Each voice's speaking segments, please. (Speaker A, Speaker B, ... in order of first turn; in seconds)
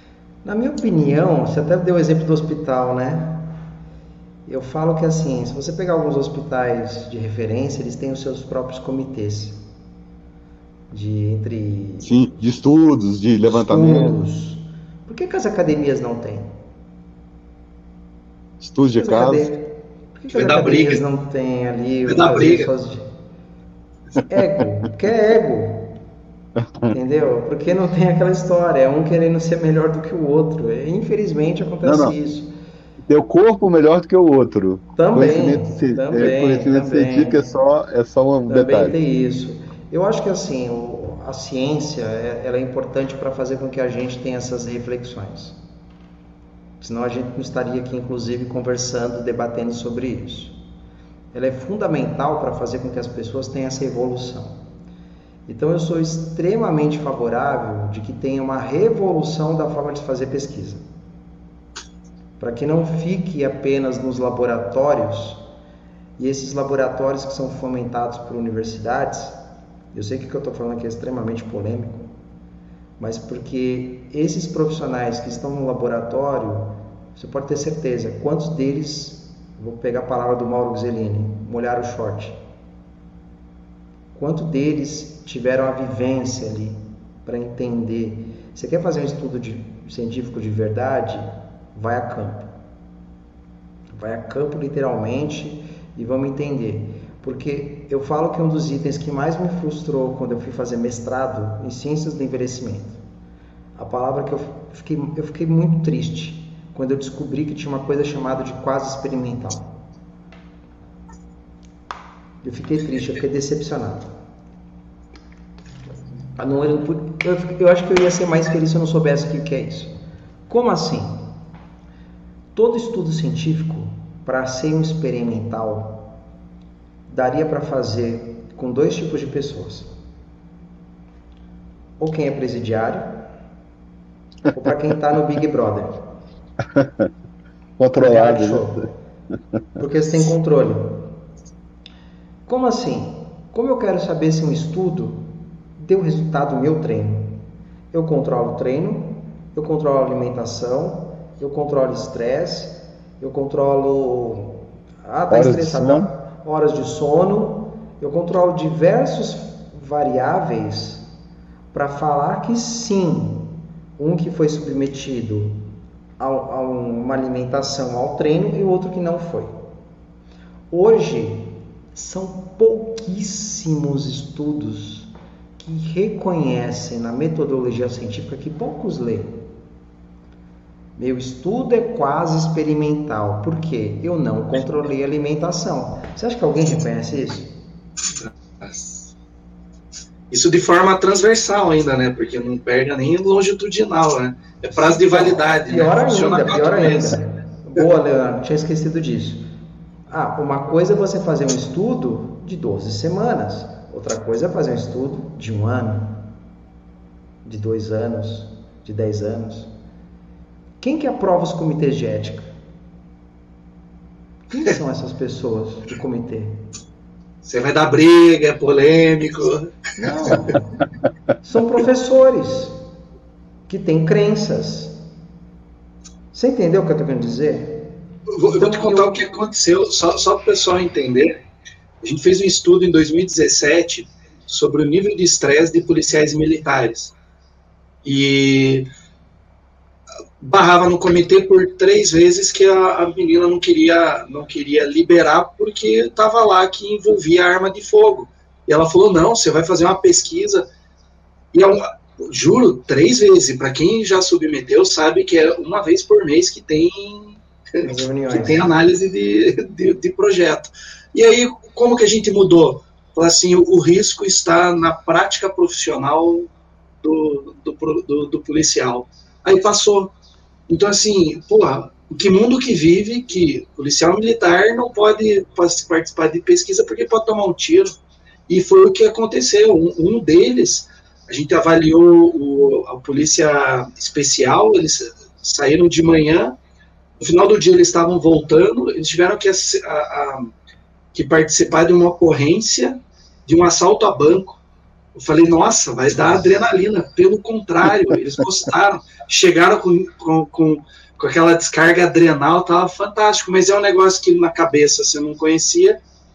Speaker A: 0.4-3.6, 4.5-9.6, 10.9-12.2, 13.4-16.5, 18.9-23.1, 24.3-25.9, 26.9-32.5, 35.0-37.6, 38.5-45.6, 46.8-50.6, 51.3-54.6, 55.5-60.8, 62.4-65.4, 66.2-69.4, 69.9-72.1, 73.0-82.4, 84.2-92.5, 93.9-103.0, 103.8-109.7, 112.4-114.1, 116.4-119.9, 120.5-121.3, 122.5-126.1, 127.1-129.9, 132.0-133.3, 134.5-136.0, 137.9-138.9, 139.8-141.1, 142.5-161.1, 161.7-165.6, 166.2-169.5, 170.7-179.5, 181.0-187.5, 194.9-199.5, 200.1-206.3, 207.4-209.7, 210.8-212.5, 214.5-216.6, 220.0-220.7, 221.4-222.8, 223.7-225.0, 226.3-227.9, 228.6-229.2, 257.8-258.7
Speaker B: 12.0-14.2, 18.6-19.5, 26.6-26.9, 31.8-32.2, 33.1-39.0, 136.6-137.1, 137.8-138.8, 155.3-156.1
Speaker C: 20.3-21.0, 22.1-22.7, 188.2-189.1, 190.3-197.2, 217.4-219.8, 228.3-231.4, 232.0-237.1, 238.0-238.9, 240.4-250.7, 251.5-266.5, 267.0-270.1, 270.7-277.9, 278.5-286.6, 287.2-290.5, 291.1-294.6, 295.2-306.0